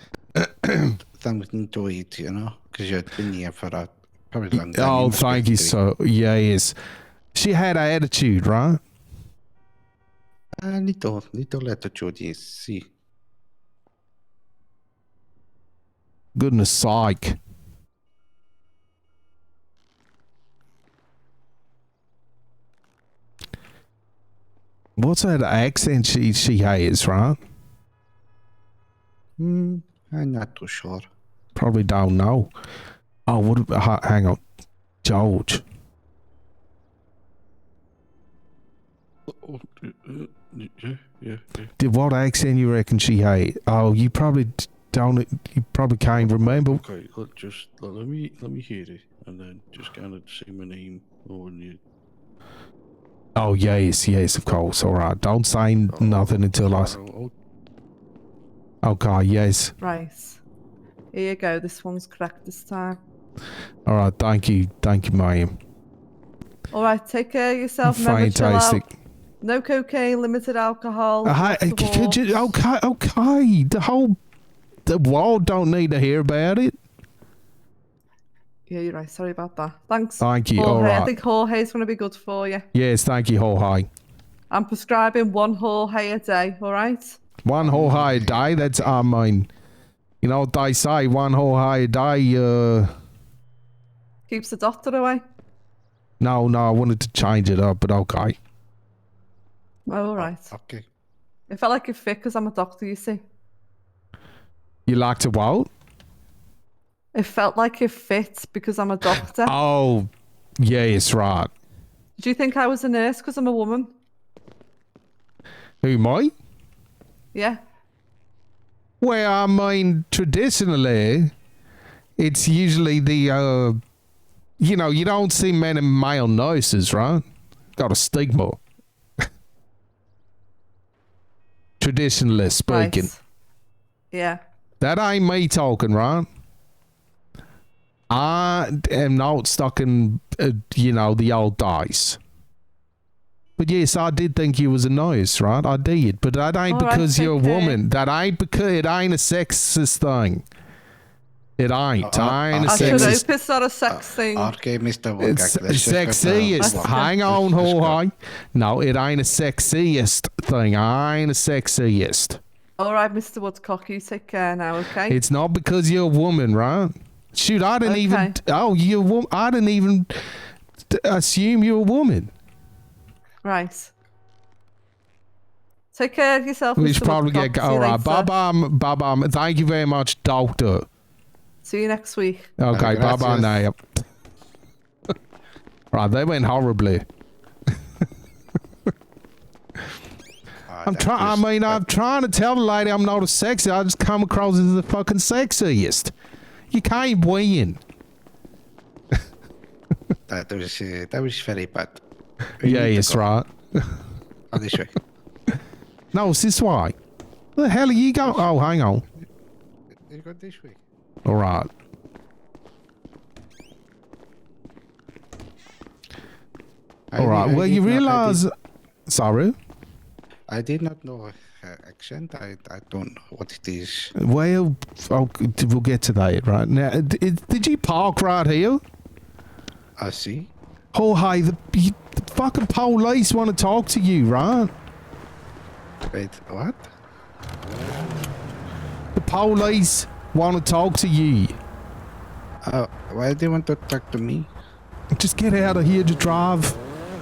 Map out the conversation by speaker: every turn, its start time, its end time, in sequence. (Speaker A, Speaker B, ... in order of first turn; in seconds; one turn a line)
Speaker A: 0.4-0.9
Speaker B: 1.2-5.8
Speaker A: 4.5-6.8
Speaker A: 7.3-8.8
Speaker B: 10.6-12.9
Speaker A: 16.4-17.4
Speaker A: 25.0-27.4
Speaker B: 29.4-31.0
Speaker A: 31.6-32.5
Speaker A: 33.3-34.4
Speaker A: 35.0-35.6
Speaker C: 39.3-41.6
Speaker A: 41.8-46.8
Speaker C: 46.2-51.8
Speaker A: 53.4-56.9
Speaker C: 56.0-57.3
Speaker A: 58.8-59.7
Speaker D: 59.8-60.4
Speaker D: 61.1-63.0
Speaker A: 63.9-65.5
Speaker D: 66.7-68.8
Speaker A: 67.8-68.8
Speaker D: 69.4-72.5
Speaker A: 71.2-74.2
Speaker A: 74.9-76.8
Speaker D: 78.7-82.7
Speaker A: 80.2-81.1
Speaker A: 82.7-83.9
Speaker D: 84.5-87.2
Speaker A: 87.5-89.5
Speaker B: 87.6-89.0
Speaker A: 90.2-92.9
Speaker D: 94.3-95.2
Speaker A: 96.2-98.4
Speaker D: 99.9-100.5
Speaker B: 100.2-100.8
Speaker D: 101.5-103.2
Speaker A: 104.9-105.7
Speaker D: 107.2-109.5
Speaker A: 109.2-110.1
Speaker A: 110.6-111.5
Speaker D: 112.2-113.9
Speaker A: 115.8-116.3
Speaker D: 117.3-117.6
Speaker A: 119.0-121.3
Speaker A: 122.2-123.8
Speaker A: 124.6-127.2
Speaker A: 127.8-128.6
Speaker A: 131.8-133.1
Speaker D: 132.7-133.2
Speaker D: 134.1-134.4
Speaker A: 134.8-136.3
Speaker A: 138.1-142.2
Speaker A: 143.6-150.5
Speaker D: 146.7-147.8
Speaker A: 151.6-153.2
Speaker B: 152.0-153.2
Speaker D: 152.7-154.5
Speaker B: 153.9-158.0
Speaker A: 155.2-162.4
Speaker D: 156.6-157.2
Speaker D: 162.8-165.2
Speaker A: 165.1-170.1
Speaker D: 167.8-168.3
Speaker A: 170.9-172.3
Speaker D: 173.4-173.9
Speaker D: 175.9-178.3
Speaker A: 176.8-180.9
Speaker D: 181.6-182.5
Speaker A: 182.6-183.8
Speaker B: 182.7-183.6
Speaker A: 185.9-187.0
Speaker B: 190.7-191.8
Speaker A: 190.8-196.1
Speaker A: 196.7-197.8
Speaker B: 200.3-202.0
Speaker B: 202.6-203.3
Speaker A: 202.6-204.0
Speaker B: 204.5-204.9
Speaker A: 206.1-206.9
Speaker A: 207.6-209.1
Speaker B: 210.1-210.8
Speaker A: 211.2-211.7
Speaker B: 217.1-218.4
Speaker A: 217.2-218.5
Speaker A: 219.1-219.5
Speaker B: 220.5-224.1
Speaker A: 224.2-228.8
Speaker B: 230.0-230.5
Speaker A: 230.9-234.7
Speaker B: 236.1-236.8
Speaker A: 239.2-241.6
Speaker B: 242.7-244.5
Speaker A: 245.2-246.8